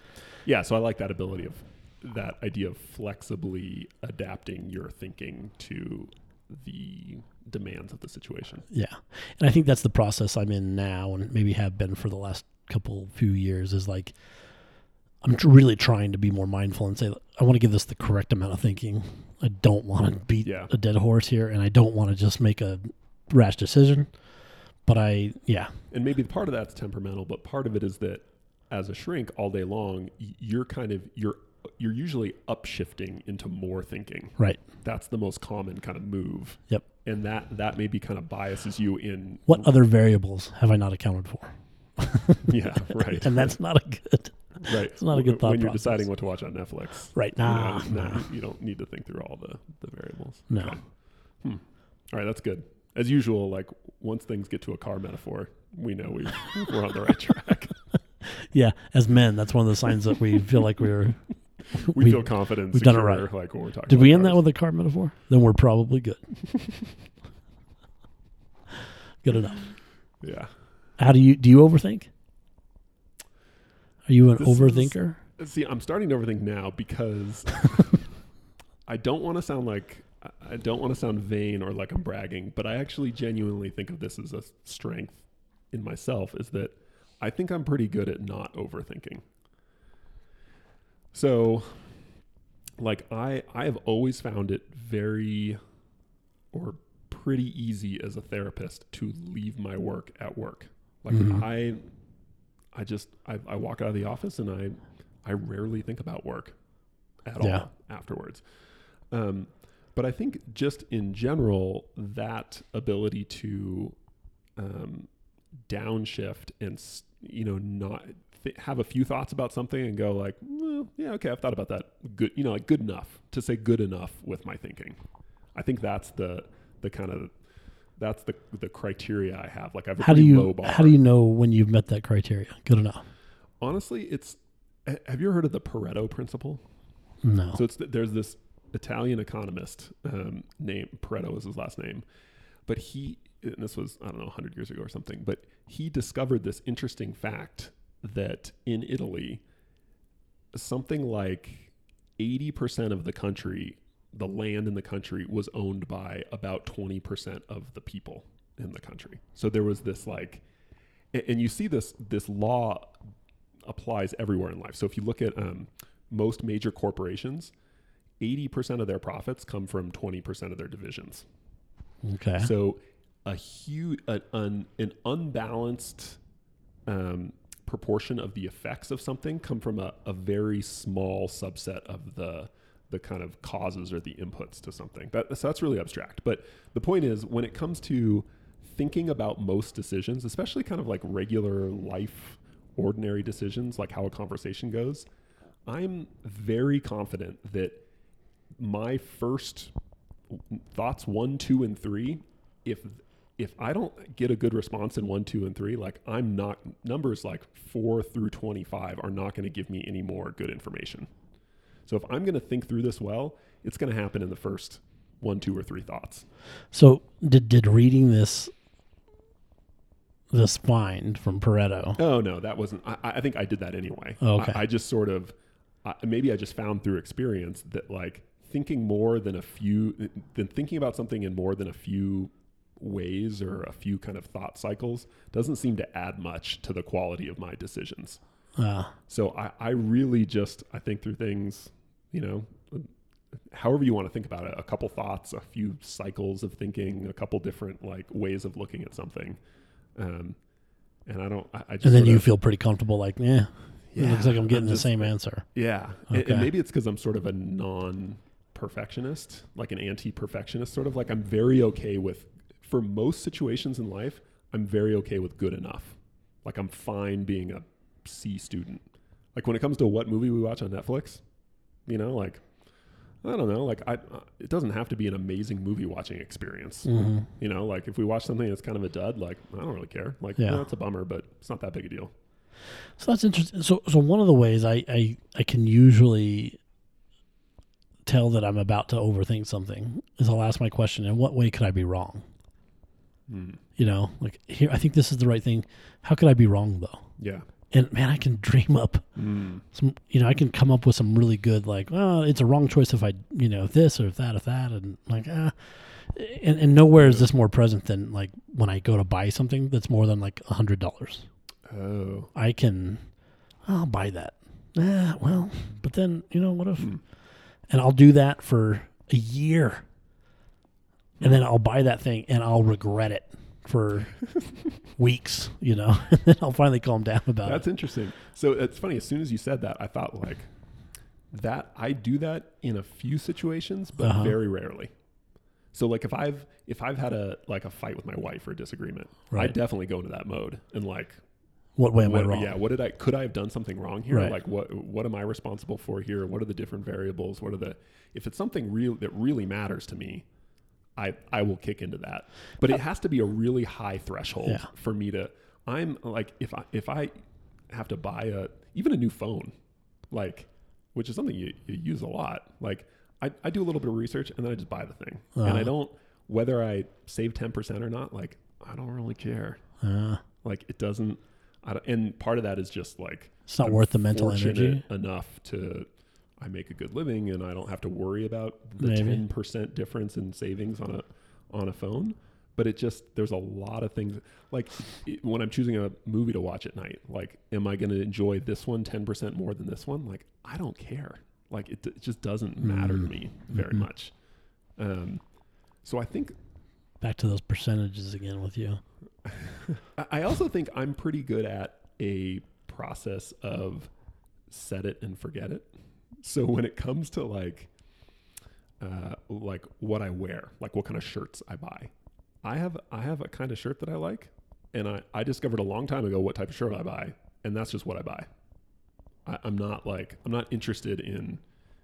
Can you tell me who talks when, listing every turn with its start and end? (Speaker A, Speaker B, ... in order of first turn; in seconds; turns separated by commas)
Speaker A: 0.3-8.7, Speaker B: 8.7-14.2, Speaker B: 15.2-24.1, Speaker A: 20.4-20.7, Speaker B: 24.9-25.8, Speaker A: 25.9-39.7, Speaker B: 39.5-46.0, Speaker A: 42.4-43.5, Speaker A: 44.6-50.8, Speaker B: 47.1-48.2, Speaker B: 50.5-50.8, Speaker A: 51.4-57.8, Speaker B: 58.2-63.3, Speaker A: 61.7-64.4, Speaker B: 63.9-66.2, Speaker B: 69.2-69.7, Speaker A: 70.2-70.5, Speaker B: 71.0-72.1, Speaker B: 74.1-75.2, Speaker A: 74.4-78.0, Speaker A: 78.9-89.2, Speaker A: 91.1-92.0, Speaker A: 92.8-95.6, Speaker A: 96.5-101.8, Speaker B: 101.1-101.4, Speaker A: 102.7-106.5, Speaker A: 107.2-108.4, Speaker B: 107.4-107.7, Speaker A: 109.1-114.0, Speaker A: 114.6-115.1, Speaker A: 115.7-125.0, Speaker A: 125.5-127.3, Speaker A: 128.0-131.0, Speaker B: 130.0-133.1, Speaker A: 133.6-136.6, Speaker B: 137.2-137.6, Speaker A: 137.5-142.0, Speaker A: 142.7-149.4, Speaker A: 150.5-160.4, Speaker A: 161.1-163.0, Speaker A: 163.7-167.5, Speaker A: 168.2-171.2, Speaker B: 172.0-172.5, Speaker A: 172.4-176.2, Speaker A: 176.9-195.1, Speaker A: 195.7-197.8, Speaker A: 198.6-199.7, Speaker A: 200.3-211.1, Speaker A: 211.8-216.3, Speaker B: 216.7-218.5, Speaker B: 220.3-222.0, Speaker A: 222.0-238.2, Speaker B: 224.2-224.6, Speaker B: 238.6-238.9, Speaker A: 239.1-249.4, Speaker A: 249.9-250.4, Speaker A: 251.1-252.3, Speaker B: 251.8-255.4, Speaker A: 253.9-271.2, Speaker B: 256.1-256.5, Speaker A: 271.9-272.4, Speaker A: 273.2-282.1, Speaker B: 276.9-277.3, Speaker B: 280.4-280.6, Speaker B: 283.0-286.6, Speaker B: 288.1-292.2, Speaker A: 293.3-293.6, Speaker B: 293.8-297.1, Speaker A: 297.2-297.4, Speaker B: 297.7-299.1, Speaker A: 299.1-299.6, Speaker B: 299.7-311.2, Speaker A: 307.0-307.3, Speaker A: 311.7-312.3, Speaker B: 312.3-313.0, Speaker B: 313.6-317.0, Speaker B: 317.7-319.9, Speaker B: 321.2-324.2, Speaker B: 324.8-327.6, Speaker A: 327.4-330.5, Speaker A: 331.3-334.9, Speaker B: 334.0-334.4, Speaker A: 335.7-341.2, Speaker B: 341.8-342.5, Speaker A: 342.0-350.2, Speaker A: 350.9-357.1, Speaker A: 357.7-359.5, Speaker A: 360.1-369.6, Speaker B: 365.4-365.7, Speaker B: 369.8-370.2, Speaker A: 370.4-375.9, Speaker B: 373.5-374.8, Speaker A: 376.4-394.1, Speaker B: 378.8-379.2, Speaker B: 392.6-393.8, Speaker A: 394.8-395.2, Speaker A: 395.8-396.3, Speaker B: 397.0-398.8, Speaker A: 399.2-403.9, Speaker A: 404.5-407.7, Speaker A: 408.8-411.9, Speaker A: 412.4-418.3, Speaker A: 419.2-421.4